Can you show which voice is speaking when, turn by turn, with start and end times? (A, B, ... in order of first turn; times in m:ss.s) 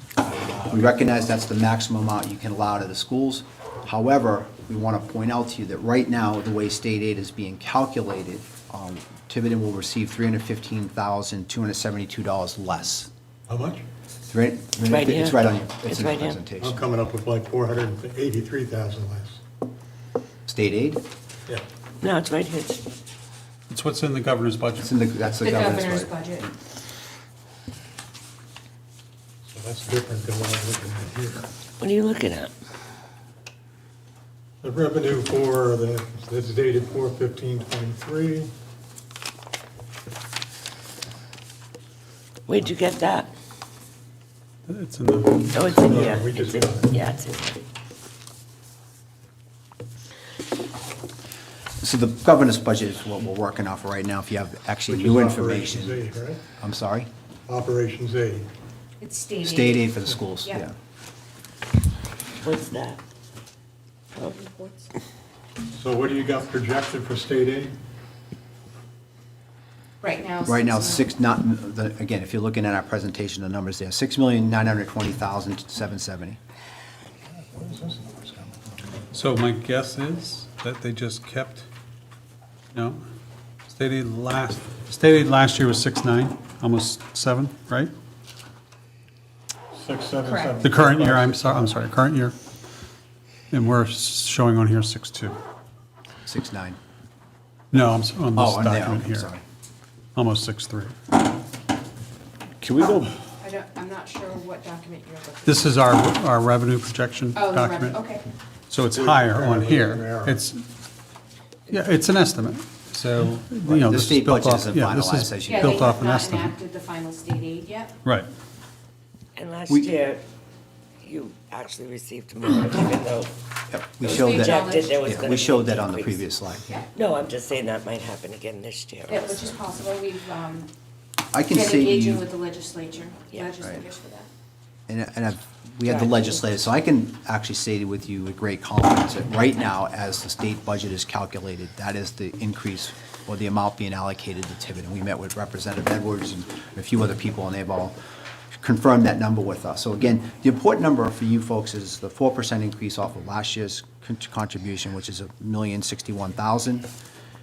0:00.6-0:13.1 A
0:13.5-0:13.8 B
0:14.3-0:16.8 A
0:14.9-0:16.4 C
0:16.6-0:19.4 B
0:20.5-0:21.0 A
0:22.0-0:22.8 C
0:23.7-0:24.9 D
0:24.8-0:26.5 A
0:25.4-0:26.5 E
0:29.4-0:31.5 B
0:31.8-0:32.5 C
0:34.6-0:38.5 B
0:42.5-0:43.3 C
0:44.7-0:45.8 D
0:45.5-0:47.6 C
0:45.8-0:46.9 B
0:51.8-0:56.0 A
0:54.9-0:56.4 B
0:56.6-0:57.1 A
0:57.5-0:58.5 B
0:59.0-0:59.9 E
0:59.4-1:00.7 A
1:02.4-1:03.0 C
1:04.1-1:04.8 C
1:05.7-1:07.7 B
1:10.0-1:11.0 E
1:10.4-1:16.4 A
1:17.3-1:18.9 B
1:19.1-1:21.6 D
1:22.7-1:23.0 D
1:23.7-1:27.9 D
1:29.7-1:31.8 B
1:30.2-1:30.6 E
1:30.6-1:32.3 D
1:33.5-1:35.4 D
1:36.2-1:36.8 A
1:37.7-1:39.3 D
1:38.3-1:39.4 A
1:40.1-1:40.9 D
1:42.6-1:43.1 A
1:43.4-1:45.8 E
1:45.4-1:48.0 D
1:47.3-1:48.2 E
1:48.7-1:50.6 D
1:48.9-1:50.4 B
1:51.7-1:56.5 D
1:53.6-1:55.9 A
1:55.4-1:58.0 E
1:59.4-2:00.2 C
2:01.0-2:03.3 C
2:03.7-2:06.8 A
2:04.0-2:06.3 C
2:04.0-2:05.1 E
2:06.9-2:09.5 C
2:09.1-2:10.7 E
2:11.3-2:12.2 A
2:11.5-2:14.3 E
2:13.6-2:13.9 A
2:14.9-2:28.0 A
2:15.8-2:16.4 C
2:28.6-2:36.9 A